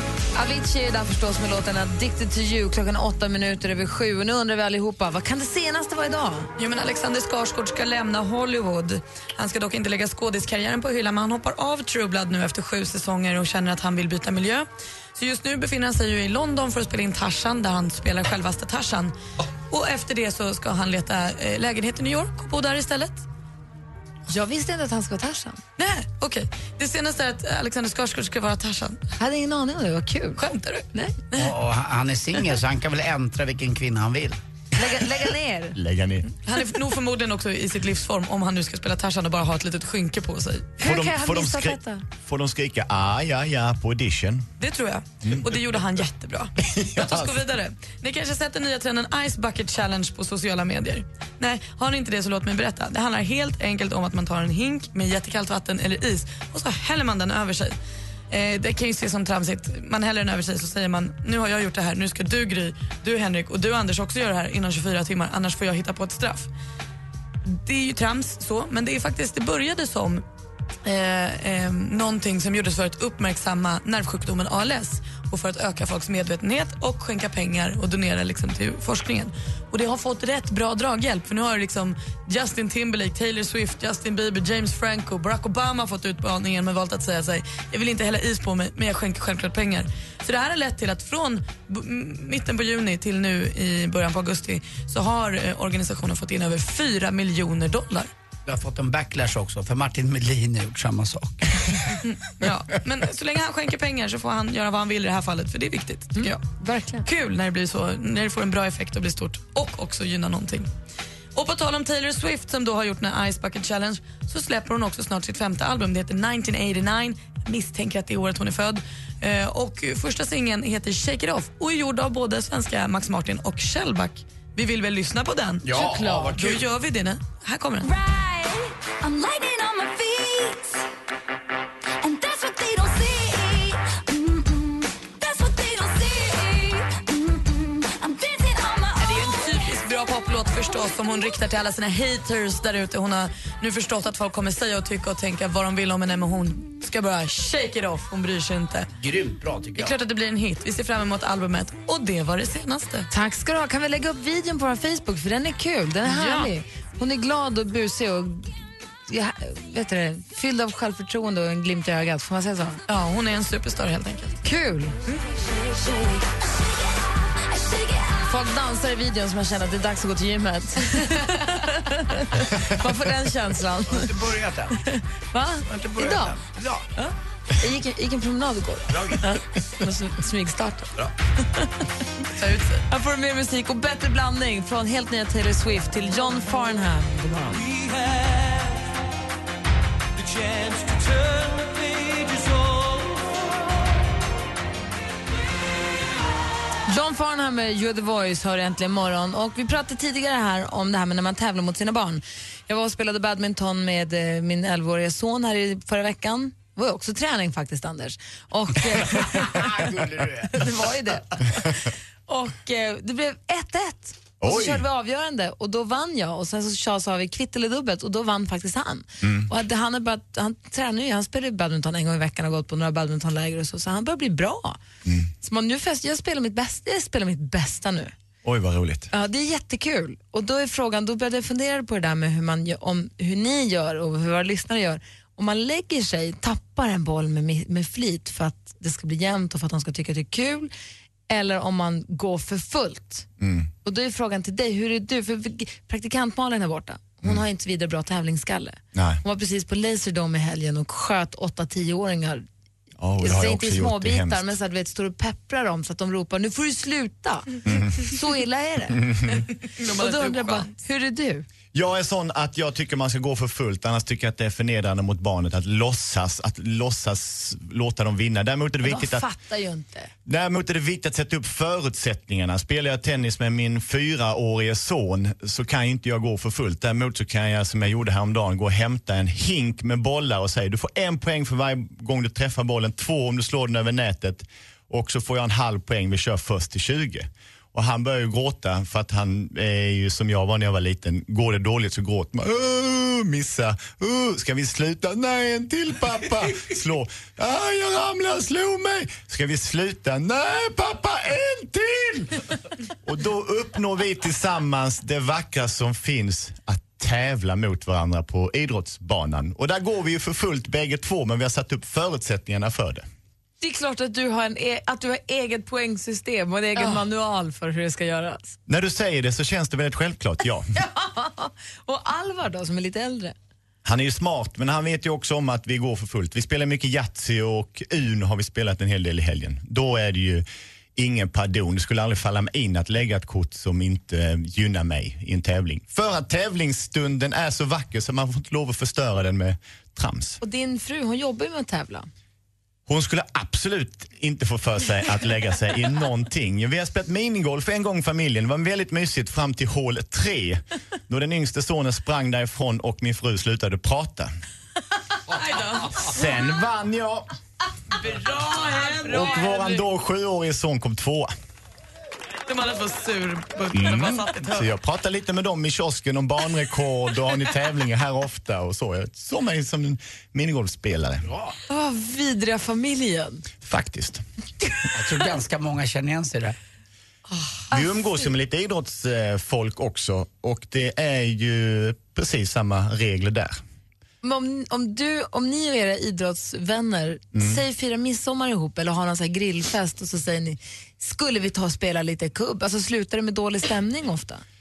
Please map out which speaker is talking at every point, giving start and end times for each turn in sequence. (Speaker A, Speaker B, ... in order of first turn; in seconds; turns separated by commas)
Speaker A: 0.3-6.5, Speaker B: 6.6-19.1, Speaker B: 19.7-23.2, Speaker A: 24.3-25.6, Speaker B: 25.8-29.0, Speaker A: 29.2-31.1, Speaker B: 30.4-31.5, Speaker C: 31.3-34.4, Speaker A: 34.8-35.8, Speaker D: 35.7-36.3, Speaker B: 36.4-40.7, Speaker A: 40.8-42.0, Speaker D: 40.8-44.5, Speaker B: 44.6-57.8, Speaker D: 45.2-45.8, Speaker D: 46.6-47.4, Speaker B: 58.3-66.5, Speaker B: 67.5-70.2, Speaker B: 70.8-98.1, Speaker C: 98.5-102.0, Speaker B: 102.0-106.4, Speaker A: 106.2-107.1, Speaker B: 107.0-110.7, Speaker B: 111.3-127.9, Speaker C: 125.6-126.6, Speaker E: 127.8-130.8, Speaker E: 132.0-139.7, Speaker B: 139.0-148.9, Speaker C: 149.0-149.9, Speaker B: 149.8-153.1, Speaker A: 153.1-158.5, Speaker B: 156.0-156.5, Speaker A: 159.1-162.8, Speaker B: 162.9-164.4, Speaker A: 164.4-165.0, Speaker E: 165.4-168.2, Speaker A: 168.2-174.1, Speaker C: 173.9-174.8, Speaker A: 174.9-176.3, Speaker C: 175.7-176.8, Speaker A: 177.0-180.9, Speaker C: 178.9-179.2, Speaker B: 182.3-182.8, Speaker A: 182.9-187.7, Speaker A: 196.9-209.9, Speaker C: 208.8-210.6, Speaker A: 210.4-224.8, Speaker D: 214.4-214.8, Speaker D: 219.2-219.5, Speaker A: 225.4-228.1, Speaker D: 228.4-229.1, Speaker A: 229.1-240.7, Speaker A: 241.3-243.3, Speaker D: 243.4-243.7, Speaker A: 243.8-252.4, Speaker D: 248.9-249.2, Speaker D: 253.0-254.5, Speaker A: 253.2-259.0, Speaker D: 257.6-258.0, Speaker D: 259.0-259.4, Speaker B: 259.7-260.7, Speaker A: 259.9-261.4, Speaker D: 261.7-269.3, Speaker A: 268.8-270.1, Speaker D: 270.2-302.3, Speaker D: 303.0-313.0, Speaker A: 313.6-318.6, Speaker D: 318.7-320.7, Speaker A: 320.7-323.3, Speaker D: 323.8-330.4, Speaker D: 330.9-340.4, Speaker A: 340.4-342.1, Speaker D: 342.9-354.3, Speaker B: 355.3-356.1, Speaker D: 356.0-357.3, Speaker B: 357.9-359.8, Speaker D: 359.1-361.3, Speaker B: 362.5-364.7, Speaker D: 363.7-371.3, Speaker C: 371.2-371.5, Speaker A: 371.7-373.4, Speaker D: 373.6-374.2, Speaker C: 374.9-376.6, Speaker A: 377.4-377.9, Speaker D: 377.7-383.6, Speaker A: 384.2-394.4, Speaker D: 387.3-387.6